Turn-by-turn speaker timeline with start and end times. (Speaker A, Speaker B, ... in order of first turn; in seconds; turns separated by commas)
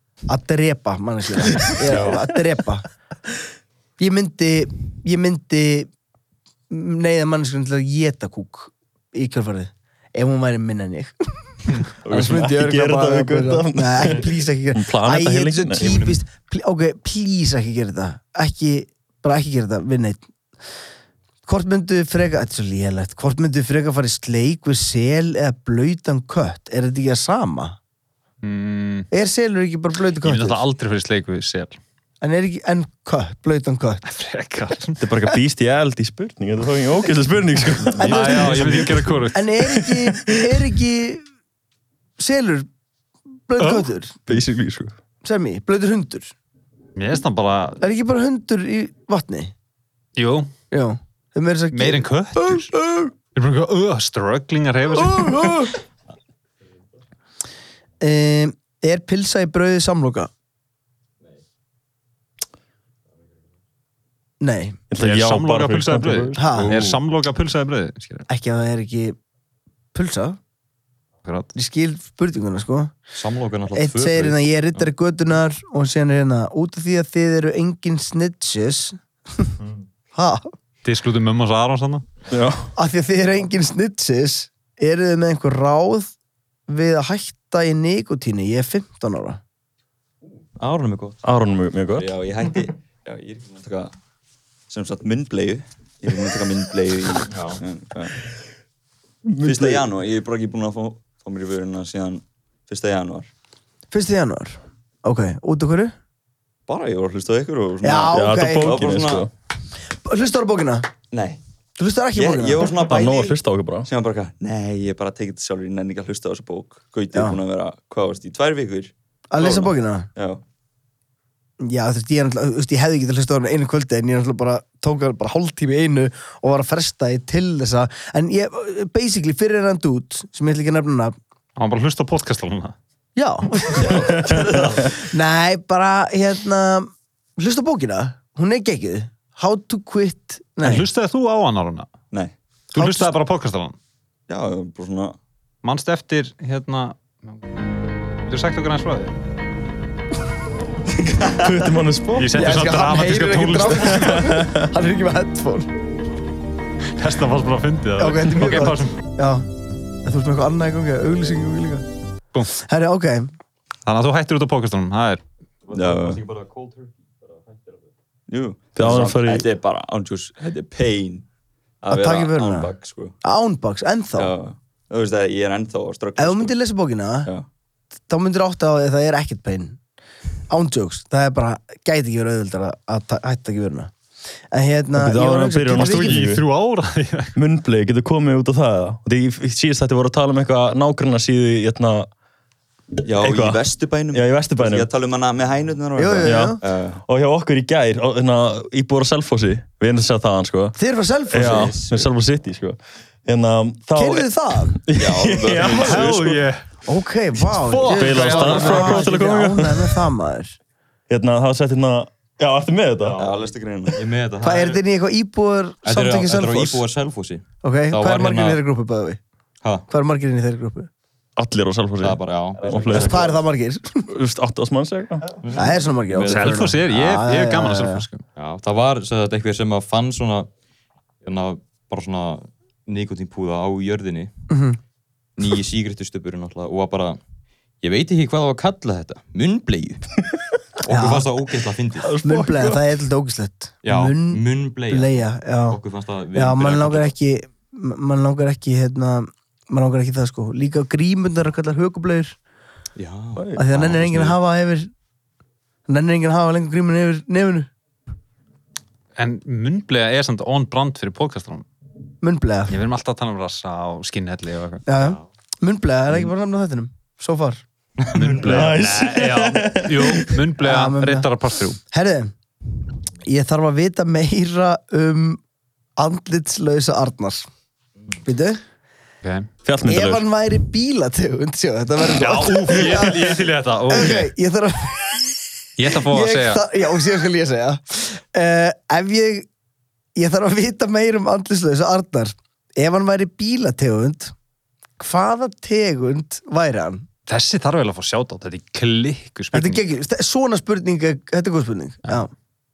Speaker A: 0.3-2.9, Speaker B: 1.9-2.2, Speaker A: 4.0-5.9, Speaker A: 6.7-20.2, Speaker C: 12.0-16.0, Speaker B: 15.8-16.2, Speaker A: 21.5-27.8, Speaker D: 28.4-29.1, Speaker A: 29.1-30.6, Speaker D: 30.2-31.8, Speaker A: 32.2-34.0, Speaker D: 34.0-35.0, Speaker C: 35.0-40.7, Speaker A: 38.0-41.2, Speaker D: 38.0-39.4, Speaker A: 42.2-42.7, Speaker A: 43.5-44.2, Speaker D: 43.6-43.9, Speaker C: 44.3-44.9, Speaker A: 45.2-46.3, Speaker D: 47.0-47.8, Speaker A: 47.8-49.5, Speaker D: 50.2-50.5, Speaker A: 50.7-53.1, Speaker D: 51.7-52.8, Speaker D: 53.4-55.5, Speaker C: 55.1-55.7, Speaker A: 55.2-55.7, Speaker A: 58.0-60.3, Speaker A: 64.4-64.8, Speaker C: 64.9-66.6, Speaker D: 65.0-68.3, Speaker A: 66.4-66.7, Speaker B: 66.6-67.0, Speaker A: 68.3-69.2, Speaker A: 69.9-70.4, Speaker D: 71.2-71.5, Speaker A: 71.5-72.9, Speaker B: 73.1-74.9, Speaker A: 73.7-79.5, Speaker A: 80.2-80.5, Speaker D: 80.8-82.0, Speaker C: 82.3-82.7, Speaker A: 82.8-86.1, Speaker A: 86.7-89.4, Speaker B: 90.6-91.2, Speaker C: 91.2-92.2, Speaker E: 92.0-93.9, Speaker E: 94.7-98.2, Speaker B: 97.3-97.6, Speaker C: 99.2-99.8, Speaker E: 99.4-103.3, Speaker A: 103.9-105.9, Speaker E: 106.7-109.3, Speaker A: 107.8-108.7, Speaker C: 108.1-109.3, Speaker A: 110.0-110.9, Speaker E: 111.1-111.4, Speaker A: 111.8-112.9, Speaker E: 112.2-120.4, Speaker C: 112.7-113.9, Speaker A: 117.1-117.4, Speaker A: 119.3-120.1, Speaker A: 121.6-131.2, Speaker D: 131.6-132.8, Speaker A: 133.2-140.9, Speaker C: 134.0-134.8, Speaker D: 140.6-141.9, Speaker D: 142.7-143.8, Speaker A: 142.8-143.1, Speaker E: 144.3-145.2, Speaker D: 145.6-147.6, Speaker D: 148.2-149.2, Speaker C: 151.3-152.7, Speaker D: 152.2-154.3, Speaker A: 152.4-155.7, Speaker C: 153.8-154.7, Speaker D: 157.0-159.0, Speaker A: 158.0-159.5, Speaker A: 160.0-161.9, Speaker A: 162.6-163.3, Speaker D: 163.9-165.2, Speaker B: 165.7-167.8, Speaker E: 165.7-166.2, Speaker E: 168.3-171.2, Speaker C: 168.8-169.5, Speaker E: 171.8-173.2, Speaker A: 171.9-172.7, Speaker A: 173.2-174.3, Speaker E: 174.2-176.6, Speaker A: 176.2-177.3, Speaker A: 178.1-179.8, Speaker A: 180.5-183.9, Speaker A: 184.5-186.2, Speaker C: 185.0-186.4, Speaker D: 185.8-187.3, Speaker C: 187.4-192.1, Speaker E: 193.0-197.0, Speaker C: 193.2-194.9, Speaker A: 196.0-196.6, Speaker C: 196.2-200.8, Speaker A: 200.8-201.7, Speaker C: 201.3-206.2, Speaker E: 201.3-202.1, Speaker A: 204.0-204.8, Speaker E: 204.9-206.4, Speaker D: 205.6-206.7, Speaker A: 206.9-210.6, Speaker D: 207.5-209.1, Speaker C: 207.9-210.1, Speaker C: 211.1-213.2, Speaker B: 213.1-213.4, Speaker E: 213.2-214.0, Speaker B: 213.9-214.8, Speaker A: 214.4-216.8, Speaker B: 215.8-218.6, Speaker A: 217.6-219.2, Speaker A: 219.9-220.9, Speaker C: 221.4-223.3, Speaker B: 222.0-223.4, Speaker A: 222.9-224.1, Speaker C: 224.1-225.2, Speaker B: 225.4-226.8, Speaker A: 225.5-228.1, Speaker D: 226.3-228.2, Speaker B: 228.4-230.5, Speaker B: 231.2-234.3, Speaker A: 234.5-234.8, Speaker B: 235.4-237.2, Speaker B: 237.8-240.1, Speaker B: 240.8-242.1, Speaker A: 240.9-241.3, Speaker C: 242.0-242.9, Speaker A: 242.2-245.8, Speaker B: 243.8-247.1, Speaker A: 246.3-252.4, Speaker B: 253.0-254.2, Speaker C: 253.4-254.3, Speaker A: 253.6-254.9, Speaker A: 255.9-257.7, Speaker D: 259.2-261.7, Speaker A: 262.2-262.8, Speaker D: 262.7-264.9, Speaker A: 264.9-267.6, Speaker B: 268.0-268.7, Speaker D: 268.1-271.8, Speaker C: 268.4-270.4, Speaker A: 270.6-271.3, Speaker A: 271.9-272.3, Speaker A: 273.2-275.4, Speaker A: 276.0-277.5, Speaker A: 278.2-278.6, Speaker D: 279.2-279.5, Speaker C: 279.6-280.3, Speaker A: 279.9-283.4, Speaker D: 282.1-284.3, Speaker A: 283.9-285.2, Speaker D: 285.8-286.6, Speaker A: 285.9-289.5, Speaker A: 290.2-294.3, Speaker A: 295.0-297.1, Speaker D: 297.3-299.8, Speaker A: 299.5-302.3